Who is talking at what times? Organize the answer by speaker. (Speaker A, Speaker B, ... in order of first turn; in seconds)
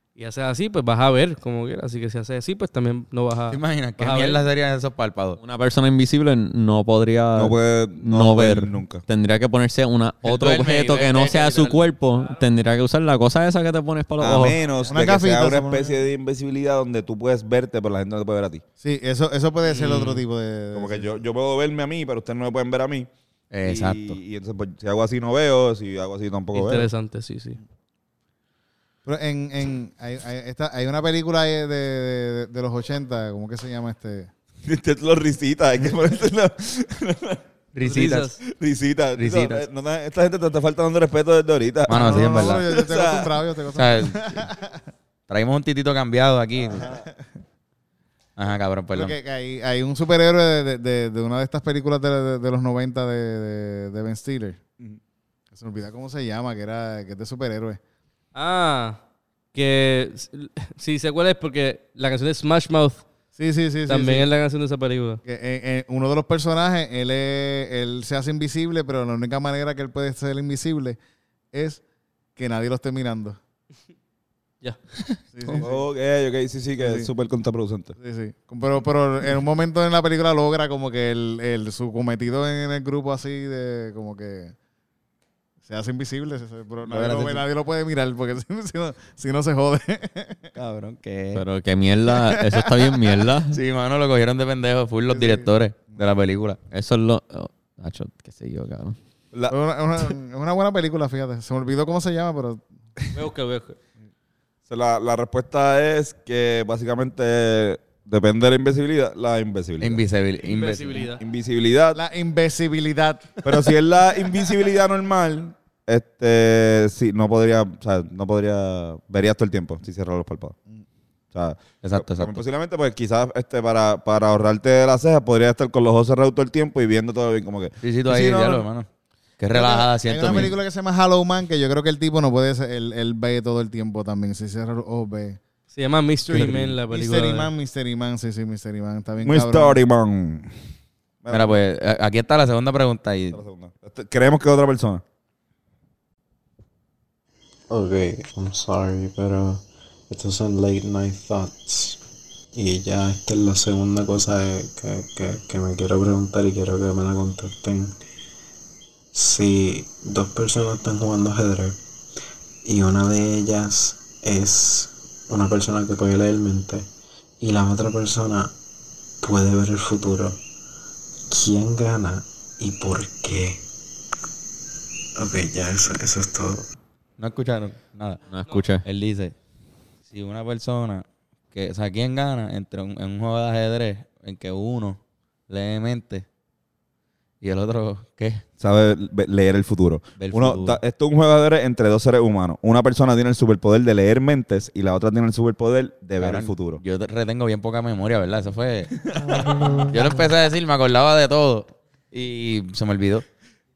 Speaker A: 0.2-4.4, 19.6-20.2, 26.5-27.6, 37.8-38.4, 58.4-59.0, 59.5-63.1, 63.9-65.2, 103.1-103.8, 110.4-111.2, 135.7-137.5
Speaker B: 3.5-5.4, 10.2-11.8, 23.5-24.2, 37.7-38.3, 39.2-39.6, 41.9-42.6, 43.8-44.5, 45.3-46.9, 48.4-49.1, 86.9-87.4, 90.5-91.5, 93.5-96.6, 109.8-111.1, 121.8-122.4, 127.8-128.9, 129.4-130.6, 136.3-136.8, 141.3-143.4, 177.2-178.2, 178.8-179.3, 180.1-186.2, 187.4-188.4, 190.2-190.8, 196.2-203.2
Speaker C: 5.4-14.6, 91.3-93.6, 96.7-99.0, 178.3-178.8
Speaker D: 7.3-9.0, 14.2-18.6, 20.7-23.1, 23.6-26.9, 34.6-37.4, 38.5-43.4, 46.7-47.0, 75.5-78.0, 104.7-110.0, 111.0-112.0, 113.4-120.6, 121.3-128.7, 139.2-140.5, 141.2-141.6, 143.3-145.0, 188.6-196.8
Speaker E: 14.9-15.9, 18.8-21.1, 29.1-34.3, 41.9-44.8, 46.8-47.1, 48.9-54.6, 55.5-57.8, 63.4-64.3, 65.2-71.0, 71.5-71.8, 72.4-73.4, 75.3-75.8, 76.8-77.1, 78.0-84.5, 85.7-90.5, 92.2-93.2, 95.1-95.5, 99.5-102.6, 112.0-113.4, 129.5-135.4, 136.3-139.8, 199.1-200.0
Speaker F: 147.7-152.0, 152.6-158.0, 159.1-161.8, 162.7-166.9, 167.4-168.6, 169.2-170.4, 171.3-173.6, 175.2-176.7